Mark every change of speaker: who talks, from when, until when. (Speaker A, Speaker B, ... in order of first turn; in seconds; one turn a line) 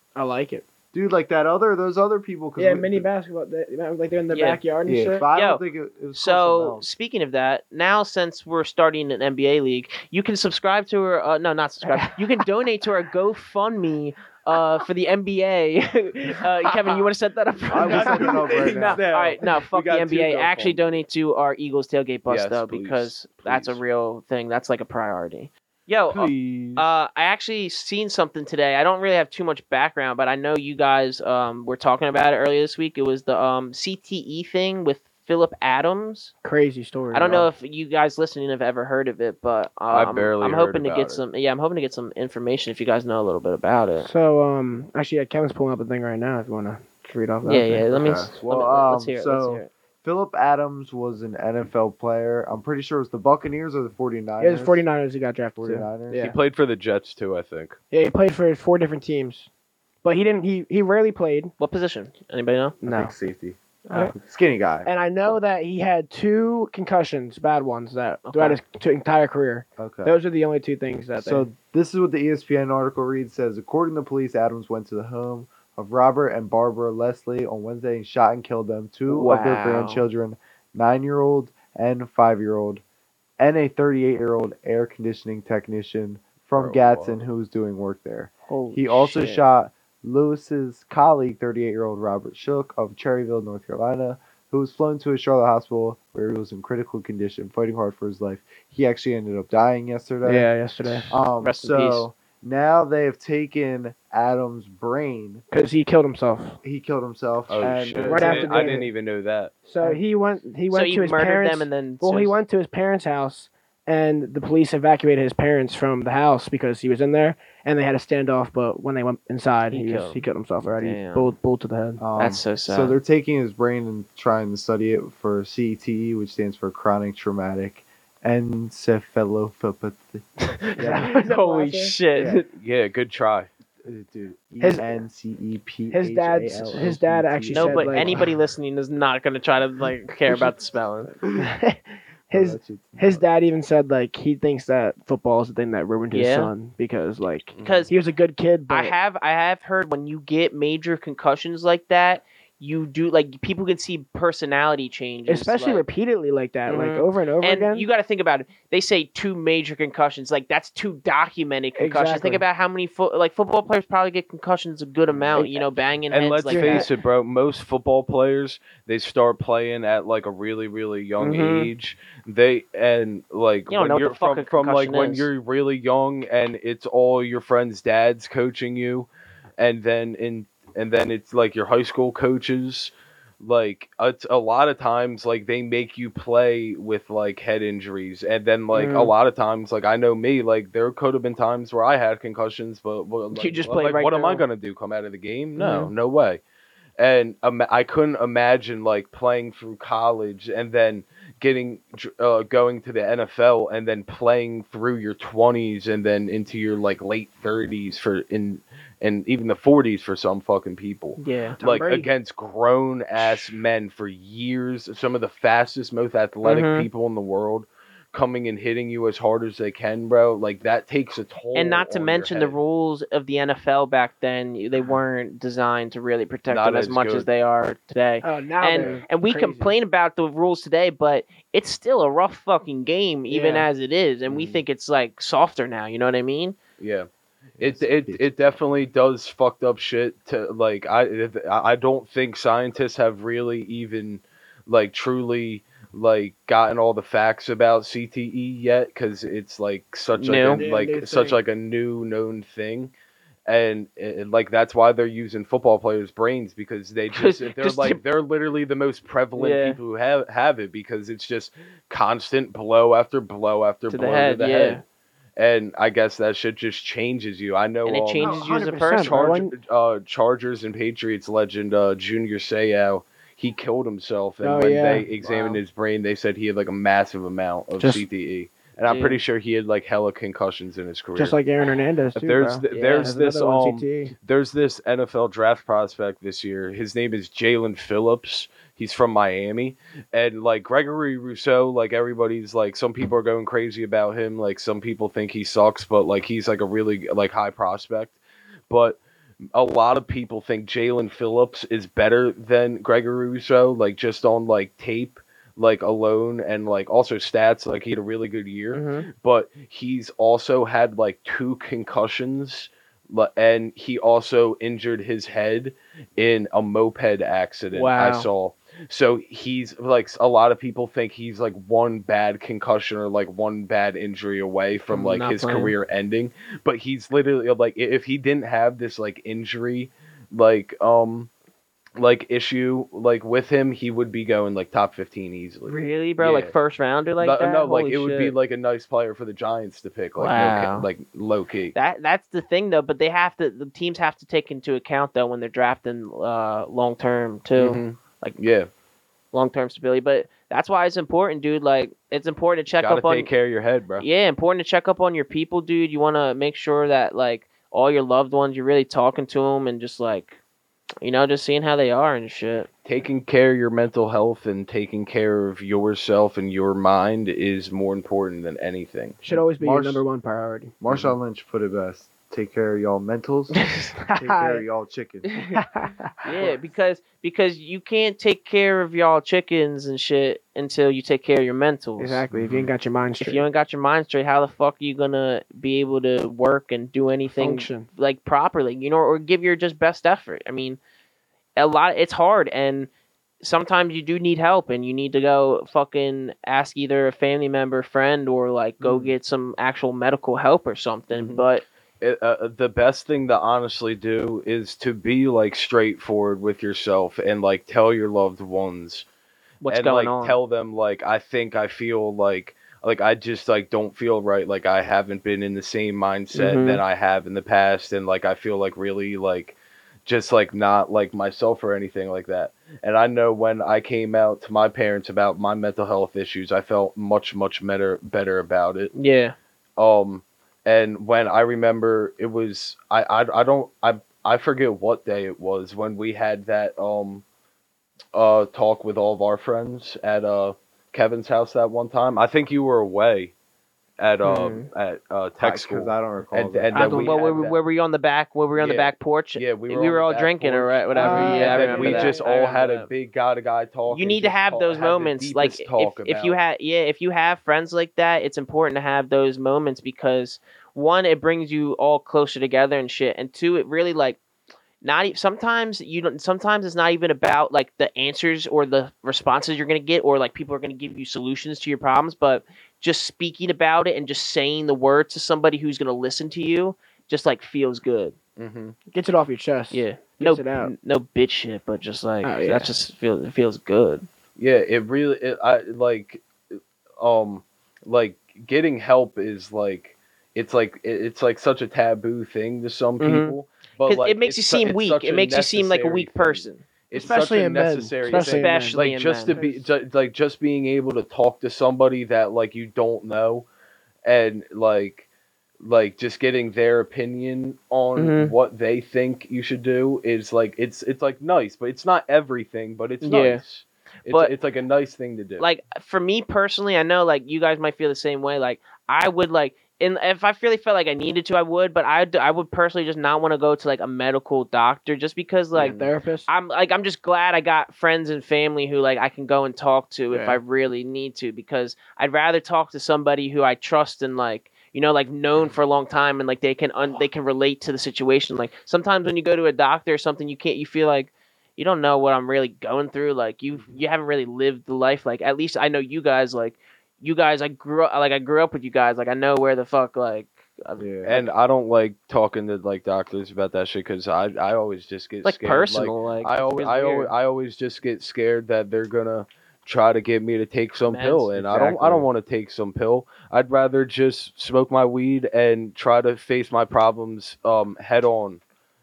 Speaker A: 0.1-0.7
Speaker B: 0.9-3.1
Speaker A: 2.6-5.2
Speaker C: 4.3-4.6
Speaker B: 4.8-6.8
Speaker C: 5.3-5.6
Speaker C: 6.1-36.3
Speaker A: 11.9-12.2
Speaker B: 17.7-19.0
Speaker D: 17.7-21.0
Speaker D: 22.3-23.8
Speaker D: 26.1-26.9
Speaker A: 36.4-37.5
Speaker C: 37.1-44.1
Speaker D: 39.9-41.2
Speaker A: 44.0-47.9
Speaker C: 47.5-49.7
Speaker B: 47.9-54.8
Speaker A: 54.4-56.4
Speaker B: 55.6-56.3
Speaker D: 56.2-57.8
Speaker A: 57.9-59.5
Speaker A: 60.0-61.5
Speaker C: 61.6-62.8
Speaker B: 62.8-64.9
Speaker A: 62.8-63.1
Speaker A: 64.8-71.5
Speaker C: 68.3-68.6
Speaker B: 69.8-70.2
Speaker B: 71.2-82.8
Speaker C: 79.1-80.0
Speaker B: 83.4-100.5
Speaker D: 86.5-87.2
Speaker C: 88.5-89.4
Speaker A: 100.2-101.1
Speaker B: 101.1-105.4
Speaker C: 101.4-102.1
Speaker A: 105.5-106.6
Speaker B: 106.6-108.9
Speaker D: 107.5-109.5
Speaker A: 108.0-108.9
Speaker A: 109.6-122.0
Speaker C: 110.7-112.4
Speaker C: 119.7-120.2
Speaker C: 120.8-121.3
Speaker B: 122.0-131.1
Speaker C: 122.2-123.0
Speaker C: 130.7-132.5
Speaker A: 130.8-132.0
Speaker B: 132.2-132.4
Speaker D: 132.5-133.5
Speaker B: 133.8-138.3
Speaker A: 134.6-135.0
Speaker A: 135.9-138.3
Speaker C: 137.5-141.2
Speaker B: 141.2-141.5
Speaker A: 141.3-149.0
Speaker B: 142.3-143.2
Speaker C: 146.1-146.5
Speaker D: 147.6-147.9
Speaker C: 147.6-147.9
Speaker C: 148.7-155.8
Speaker A: 155.3-157.9
Speaker C: 156.7-166.9
Speaker A: 161.8-162.4
Speaker A: 165.3-165.7
Speaker D: 166.1-196.4
Speaker A: 166.5-166.9
Speaker C: 171.2-171.7
Speaker C: 173.7-175.3
Speaker C: 188.7-189.1
Speaker C: 193.3-194.4
Speaker C: 195.6-195.9
Speaker D: 197.0-222.6
Speaker C: 211.2-211.6
Speaker A: 211.6-212.1
Speaker C: 213.2-213.6
Speaker C: 216.4-216.9
Speaker C: 221.6-236.6
Speaker D: 226.5-227.3
Speaker A: 228.2-229.7
Speaker D: 228.8-229.0
Speaker A: 233.3-233.7
Speaker D: 234.3-234.6
Speaker D: 236.8-237.1
Speaker B: 237.6-238.5
Speaker D: 237.6-252.9
Speaker C: 250.2-250.7
Speaker A: 250.5-251.4
Speaker D: 253.5-264.8
Speaker C: 257.1-258.0
Speaker C: 259.4-259.8
Speaker C: 263.9-264.8
Speaker D: 265.4-281.4
Speaker C: 267.9-269.2
Speaker A: 268.2-269.5
Speaker A: 274.4-275.4
Speaker A: 277.8-278.0
Speaker C: 278.9-279.2
Speaker A: 281.2-284.1
Speaker D: 282.1-298.2
Speaker C: 282.7-283.0
Speaker D: 298.7-299.0
Speaker D: 299.5-331.3
Speaker C: 308.7-309.1
Speaker C: 317.7-318.3
Speaker C: 324.9-325.8
Speaker D: 332.0-336.5
Speaker C: 335.7-338.3
Speaker D: 337.2-341.8
Speaker C: 340.2-340.9
Speaker C: 341.7-348.4
Speaker D: 347.6-348.7
Speaker C: 349.3-353.3
Speaker D: 352.8-354.1
Speaker C: 354.0-360.4
Speaker C: 361.0-362.7
Speaker D: 362.9-369.2
Speaker A: 369.2-370.7
Speaker B: 369.4-370.0
Speaker B: 370.8-375.3
Speaker A: 374.0-374.6
Speaker C: 375.3-375.6
Speaker A: 375.6-376.5
Speaker C: 376.2-382.2
Speaker A: 382.0-383.5
Speaker D: 382.4-382.7
Speaker C: 383.2-390.8
Speaker A: 387.4-387.9
Speaker C: 391.6-392.9
Speaker C: 393.4-401.6
Speaker D: 398.8-399.1
Speaker D: 401.1-401.4
Speaker D: 402.0-409.1
Speaker C: 409.6-410.4
Speaker D: 409.7-428.9
Speaker C: 416.3-416.8
Speaker C: 428.9-429.4
Speaker D: 429.8-437.2
Speaker D: 438.1-443.3
Speaker D: 444.0-447.6
Speaker C: 444.2-444.7
Speaker B: 445.4-447.4
Speaker C: 446.7-452.9
Speaker D: 448.6-456.4
Speaker A: 451.0-452.2
Speaker B: 451.0-451.9
Speaker C: 453.9-464.2
Speaker C: 464.8-478.1
Speaker D: 478.4-478.8
Speaker A: 478.9-480.7
Speaker C: 479.7-484.1
Speaker A: 482.2-482.7
Speaker D: 484.4-486.2
Speaker D: 487.0-503.5
Speaker C: 493.0-496.6
Speaker A: 496.9-499.7
Speaker C: 498.1-499.4
Speaker D: 504.0-505.1
Speaker D: 505.6-515.5
Speaker C: 508.0-508.3
Speaker C: 513.0-513.4
Speaker C: 514.1-514.3
Speaker C: 515.4-551.2
Speaker A: 525.5-526.3
Speaker D: 525.6-525.9
Speaker A: 530.1-530.4
Speaker B: 550.8-551.2
Speaker D: 551.0-568.4
Speaker C: 555.2-557.1
Speaker C: 560.9-561.7
Speaker B: 561.4-562.1